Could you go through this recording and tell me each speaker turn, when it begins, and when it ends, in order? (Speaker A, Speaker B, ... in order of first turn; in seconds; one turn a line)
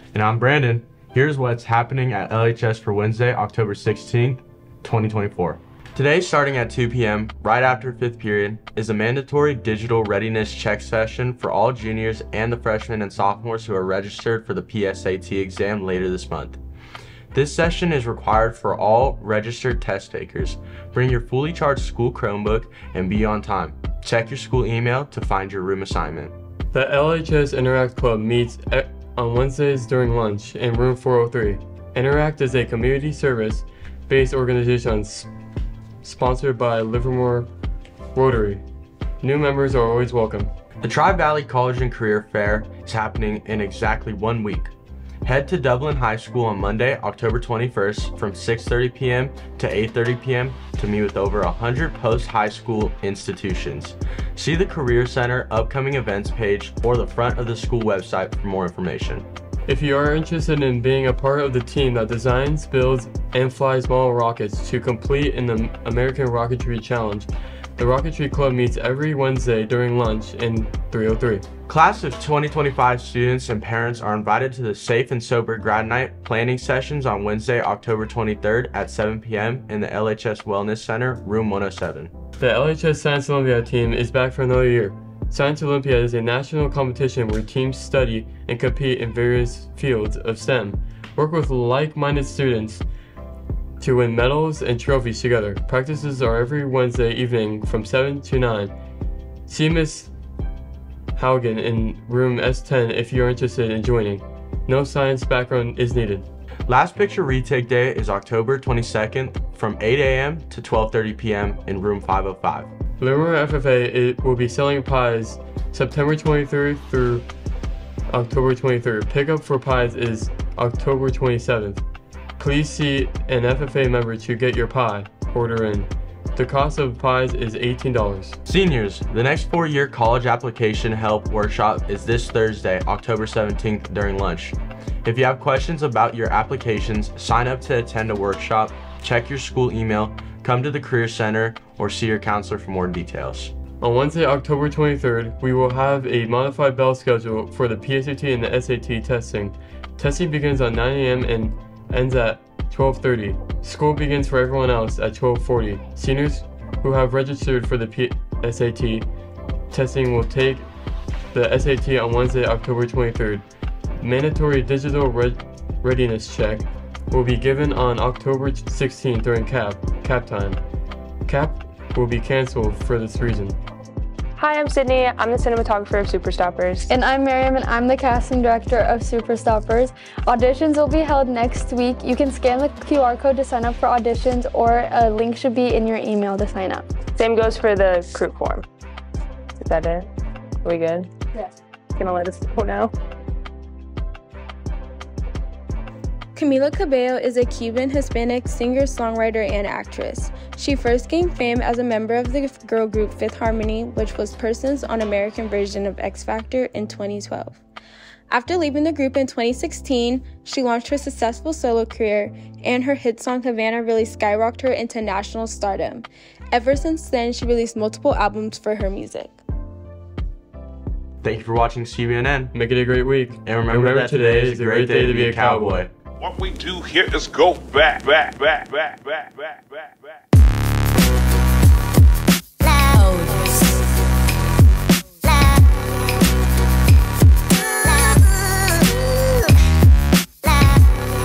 Speaker A: 0.1-16.6
Speaker A: 17.3-26.3
Speaker B: 26.7-35.3
Speaker B: 36.0-37.5
Speaker B: 38.1-38.6
Speaker B: 39.2-40.5
Speaker A: 40.8-44.7
Speaker A: 45.2-59.2
Speaker B: 59.7-71.5
Speaker A: 71.7-82.1
Speaker B: 82.4-92.8
Speaker B: 93.8-98.7
Speaker B: 99.5-100.1
Speaker B: 101.1-106.2
Speaker A: 106.7-112.7
Speaker B: 113.0-117.2
Speaker B: 118.1-121.8
Speaker B: 122.4-128.4
Speaker A: 128.4-143.5
Speaker B: 143.8-159.1
Speaker B: 159.7-160.7
Speaker B: 161.3-163.4
Speaker B: 164.0-170.6
Speaker B: 171.2-173.6
Speaker C: 174.4-176.9
Speaker D: 176.9-186.8
Speaker C: 187.1-188.7
Speaker C: 189.6-190.1
Speaker C: 190.6-191.1
Speaker C: 191.9-192.9
Speaker E: 196.3-207.6
Speaker E: 208.3-219.4
Speaker A: 221.2-222.5
Speaker B: 222.5-225.8
Speaker A: 223.4-225.9
Speaker F: 226.2-230.1